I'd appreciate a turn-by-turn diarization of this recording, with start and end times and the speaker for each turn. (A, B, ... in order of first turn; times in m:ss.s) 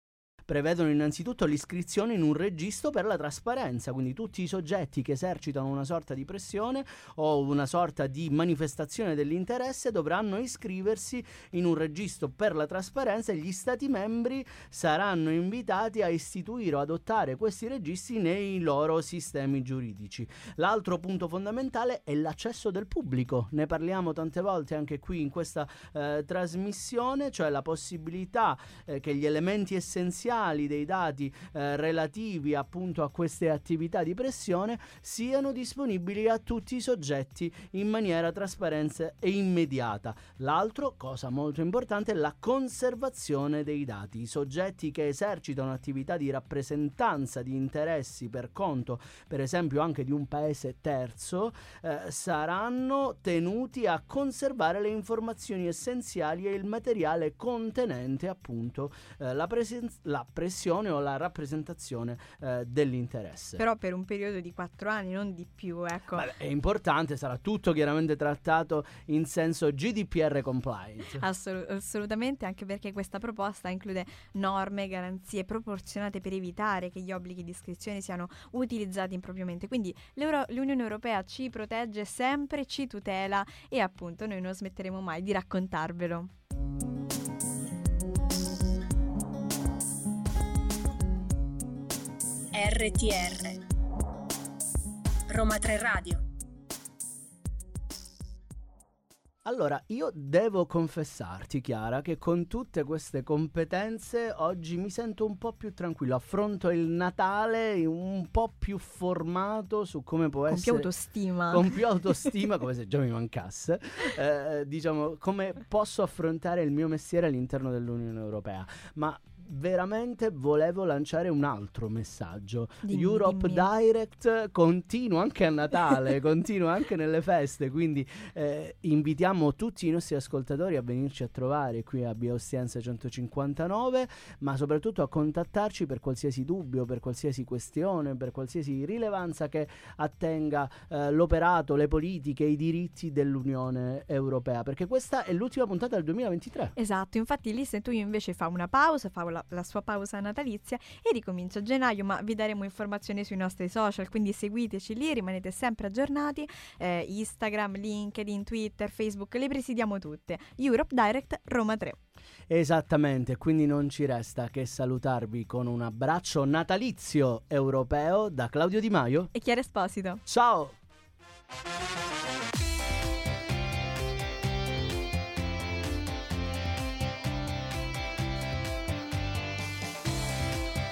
0:00.5-1:03.6 A
1:03.6-1:06.3 B
1:06.1-1:11.2 A
1:11.2-1:26.3 B
1:32.5-1:33.6 C
1:35.3-1:36.2 C
1:39.4-1:50.9 A
1:50.5-1:51.7 B
1:51.5-2:26.8 A
2:02.8-2:03.7 B
2:26.8-2:42.0 B
2:42.5-2:49.3 A
2:49.3-2:50.2 B
2:50.3-2:50.8 A